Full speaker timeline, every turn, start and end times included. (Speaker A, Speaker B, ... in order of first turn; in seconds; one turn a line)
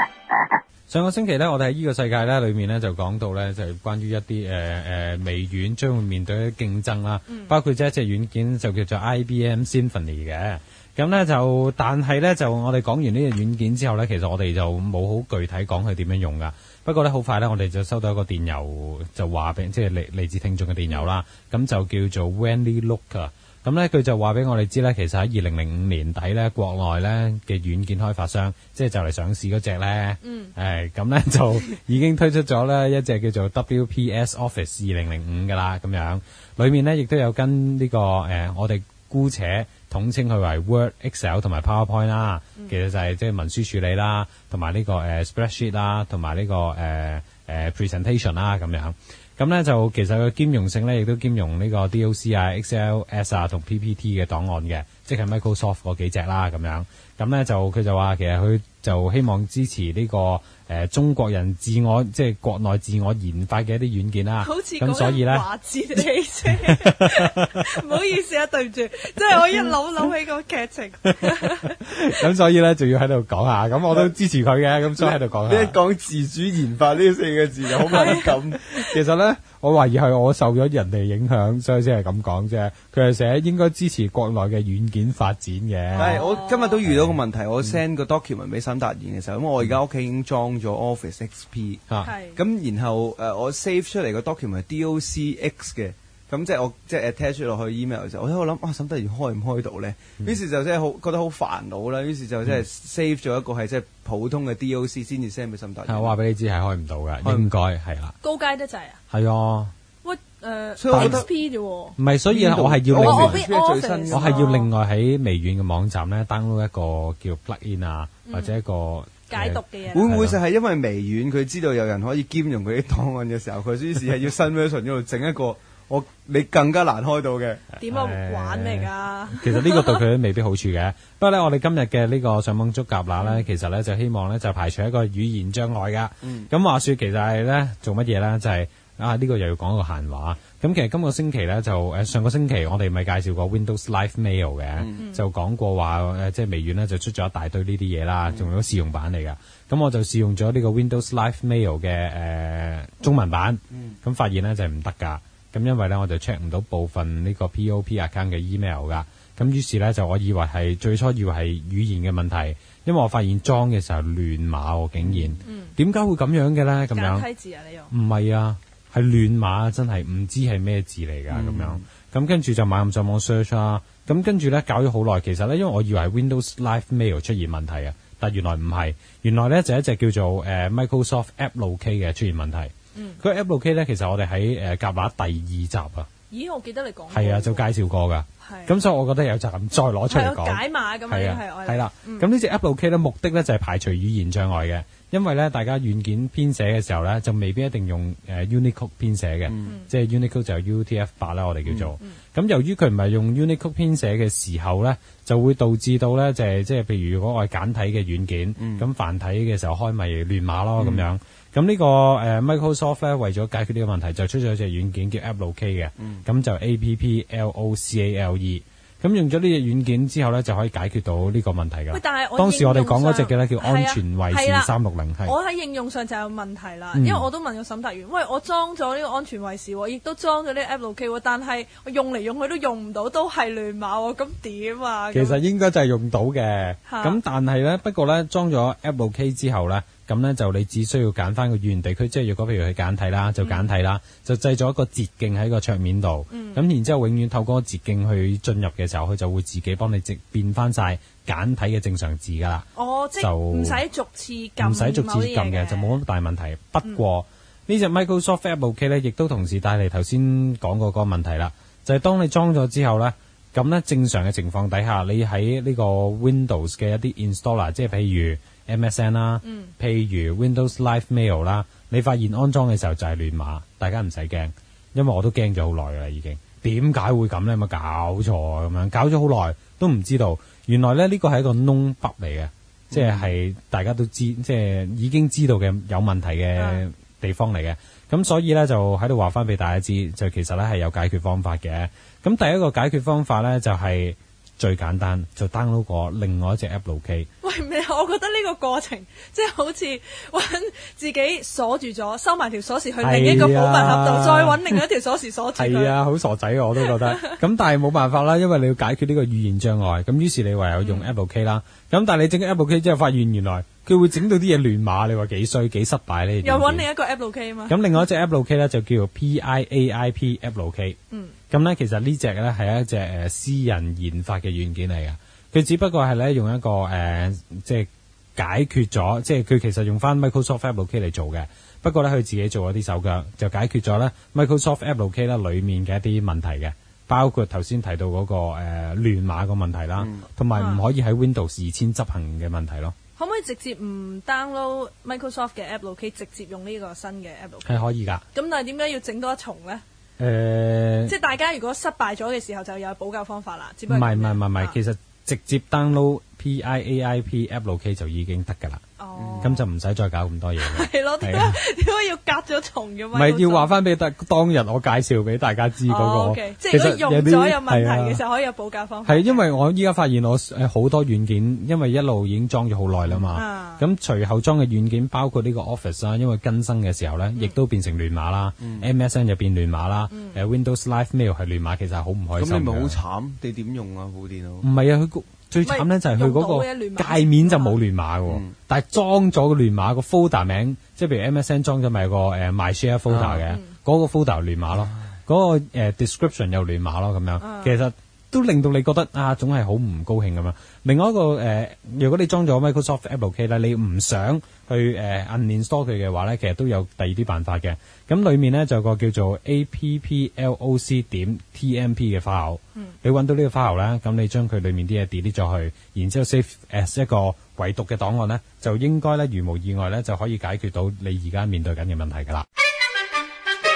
Speaker A: 0.9-65.4
Speaker B: 20.9-21.1
Speaker B: 30.2-30.6
Speaker B: 64.4-71.8
Speaker A: 66.5-67.5
Speaker A: 71.0-75.8
Speaker C: 74.9-78.7
Speaker A: 77.9-86.2
Speaker B: 85.9-86.8
Speaker C: 86.0-106.2
Speaker B: 92.0-92.4
Speaker A: 105.9-108.2
Speaker C: 107.2-107.5
Speaker B: 108.2-109.0
Speaker A: 109.1-109.7
Speaker B: 110.0-112.0
Speaker C: 110.8-111.3
Speaker A: 110.9-111.2
Speaker A: 112.0-113.5
Speaker C: 112.3-114.7
Speaker B: 113.0-114.7
Speaker A: 114.1-120.4
Speaker B: 118.2-118.5
Speaker B: 119.2-120.0
Speaker C: 119.9-127.6
Speaker B: 127.8-130.1
Speaker A: 127.8-167.3
Speaker C: 136.2-136.5
Speaker C: 144.8-145.1
Speaker C: 148.3-148.5
Speaker C: 165.0-165.4
Speaker B: 165.4-165.8
Speaker B: 166.9-167.9
Speaker A: 167.9-186.1
Speaker C: 171.3-171.9
Speaker B: 182.9-183.2
Speaker B: 186.3-187.7
Speaker A: 187.1-225.3
Speaker B: 188.4-188.7
Speaker B: 190.1-192.3
Speaker C: 199.5-199.8
Speaker C: 201.7-202.0
Speaker C: 208.6-208.9
Speaker C: 210.8-211.1
Speaker B: 221.9-235.4
Speaker A: 226.9-227.3
Speaker A: 235.1-252.7
Speaker B: 236.8-237.1
Speaker B: 243.4-243.8
Speaker B: 246.3-246.7
Speaker B: 252.7-256.0
Speaker A: 253.2-253.8
Speaker A: 254.6-297.3
Speaker B: 269.4-269.8
Speaker C: 282.9-283.3
Speaker B: 297.4-306.0
Speaker A: 303.0-304.9
Speaker A: 305.6-316.9
Speaker B: 306.8-307.4
Speaker B: 310.8-311.1
Speaker B: 316.4-318.1
Speaker A: 317.7-321.0
Speaker B: 321.1-321.4
Speaker A: 321.5-343.0
Speaker C: 340.0-340.2
Speaker B: 340.5-340.9
Speaker B: 343.2-349.8
Speaker A: 347.7-348.2
Speaker A: 350.2-351.1
Speaker B: 351.1-354.8
Speaker A: 353.9-358.8
Speaker B: 359.0-359.6
Speaker C: 359.1-359.6
Speaker A: 359.4-361.6
Speaker B: 360.6-363.9
Speaker A: 363.1-368.2
Speaker B: 365.8-369.5
Speaker A: 369.1-383.0
Speaker B: 373.3-373.9
Speaker B: 377.4-377.6
Speaker C: 378.6-378.9
Speaker B: 380.1-380.4
Speaker C: 382.4-384.7
Speaker A: 384.6-422.5
Speaker B: 385.6-387.8
Speaker C: 388.3-388.5
Speaker C: 393.1-393.5
Speaker B: 393.5-393.8
Speaker B: 397.4-397.8